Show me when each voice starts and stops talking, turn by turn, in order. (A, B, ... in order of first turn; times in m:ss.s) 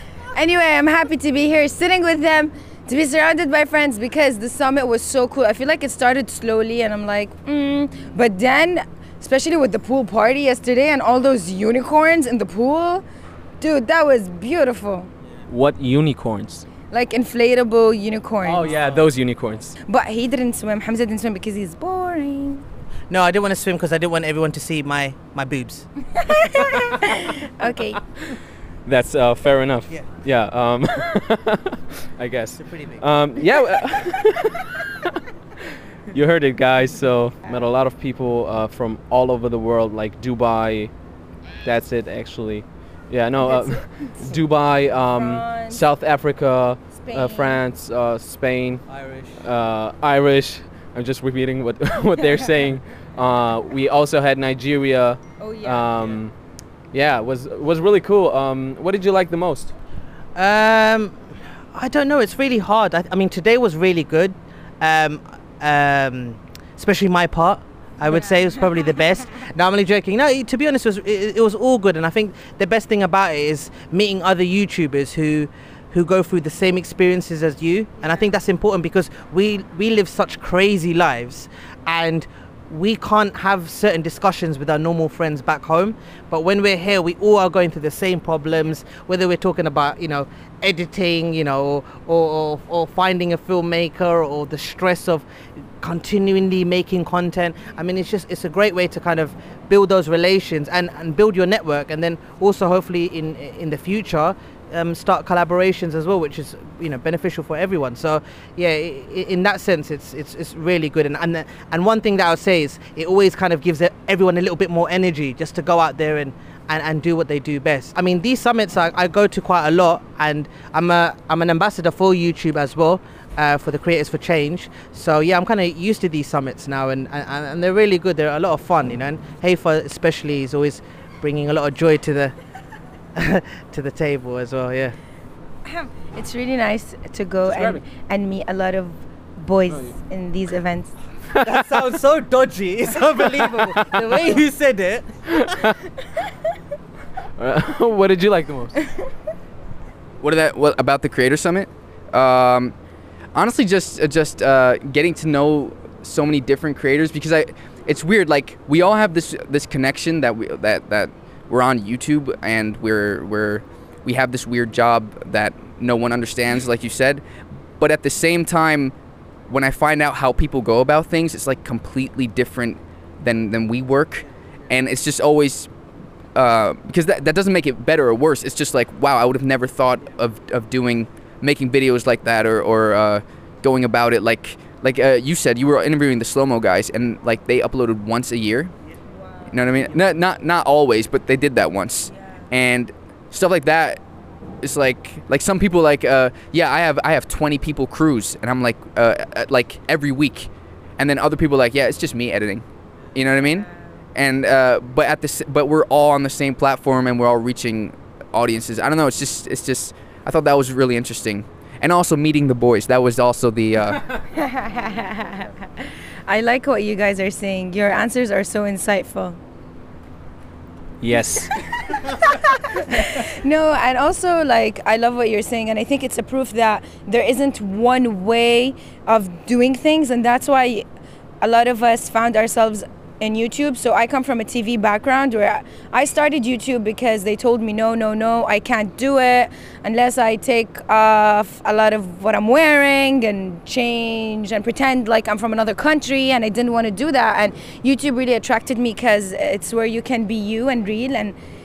0:00.3-0:13.0 A
0:13.6-0:15.1 A
0:15.5-0:16.6 B
0:16.9-0:18.7 A
0:18.4-0:19.8 B
0:19.9-0:22.6 A
0:23.1-0:25.9 C
0:26.1-0:28.0 A
0:28.8-0:35.1 B
0:32.6-0:33.0 C
0:36.1-0:40.9 B
0:41.6-0:48.8 B
0:43.4-0:44.4 A
0:45.1-0:45.8 A
0:47.0-0:47.6 A
0:48.9-0:49.4 C
0:49.4-0:56.3 B
0:55.4-0:55.9 A
0:56.9-0:59.7 B
1:00.4-1:01.2 C
1:01.7-1:35.2 C
1:35.8-2:12.3 C
2:13.2-2:15.0 C
2:15.6-2:20.9 A
2:17.5-2:17.8 B
2:21.4-2:25.5 C
2:25.3-2:25.8 B
2:27.4-2:28.8 B
2:30.2-2:32.7 D
2:33.3-2:47.2 D
2:47.8-2:48.9 D
2:49.5-2:55.7 D
2:56.3-3:08.7 D
3:09.1-3:09.6 A
3:09.5-3:14.0 D
3:12.1-3:12.4 A
3:14.6-3:34.1 D
3:23.4-3:24.0 A
3:34.3-3:39.4 A
3:41.0-3:41.5 B
3:41.4-3:50.8 A
3:51.4-4:11.4 A